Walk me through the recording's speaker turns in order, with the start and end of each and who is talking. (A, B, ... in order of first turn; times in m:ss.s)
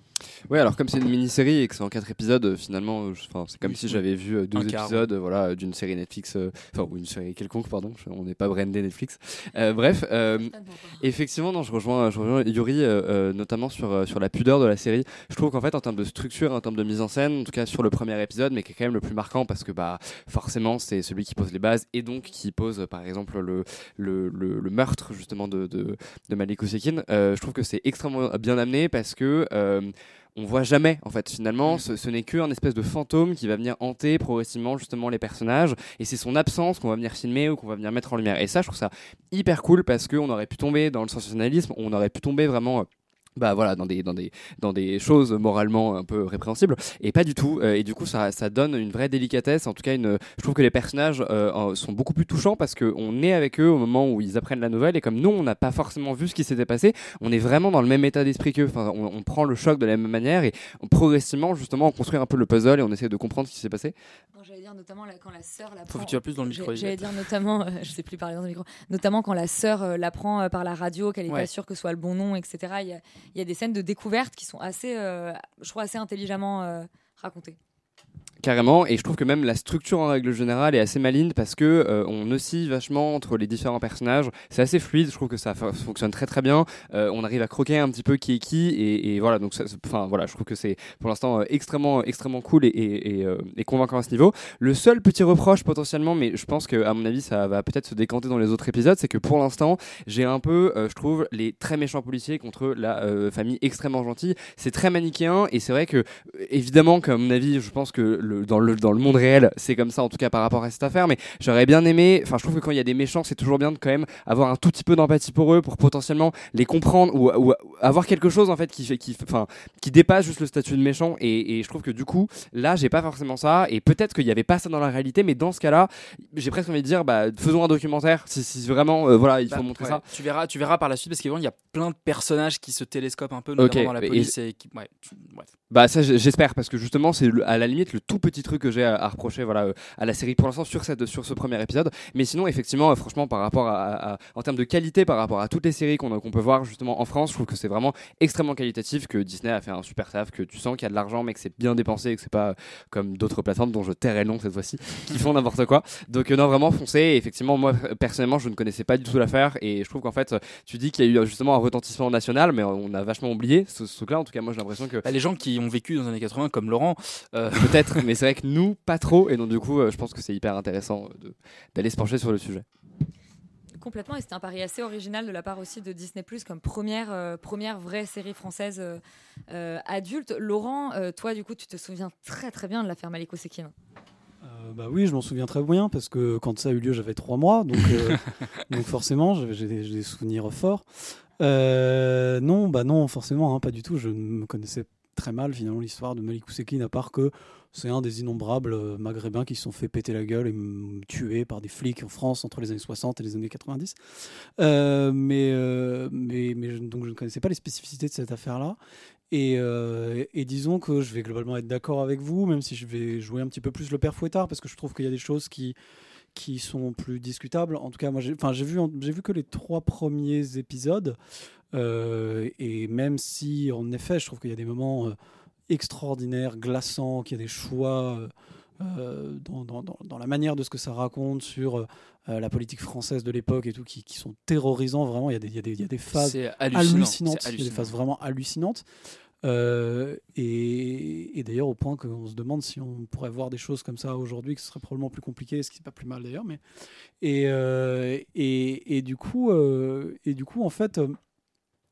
0:00.5-1:03.9 A
0:03.6-0:04.0 B
0:04.5-0:05.1 B
0:10.4-0:11.0 C
1:04.4-1:17.6 C
1:05.9-1:07.2 B
1:18.4-2:10.0 A
2:09.5-2:15.5 B
2:13.6-2:14.3 A
2:15.7-2:45.0 A
2:45.0-2:48.0 B
2:47.6-2:52.6 A
2:53.8-3:03.7 C
3:04.4-3:10.9 D
3:11.4-3:24.0 D
3:24.6-3:28.8 D
3:29.3-3:35.8 D
3:36.3-3:41.2 D
3:41.7-3:45.2 D
3:45.7-3:58.8 D
3:56.2-3:57.9 B
3:59.4-4:06.6 D
4:07.2-4:11.2 D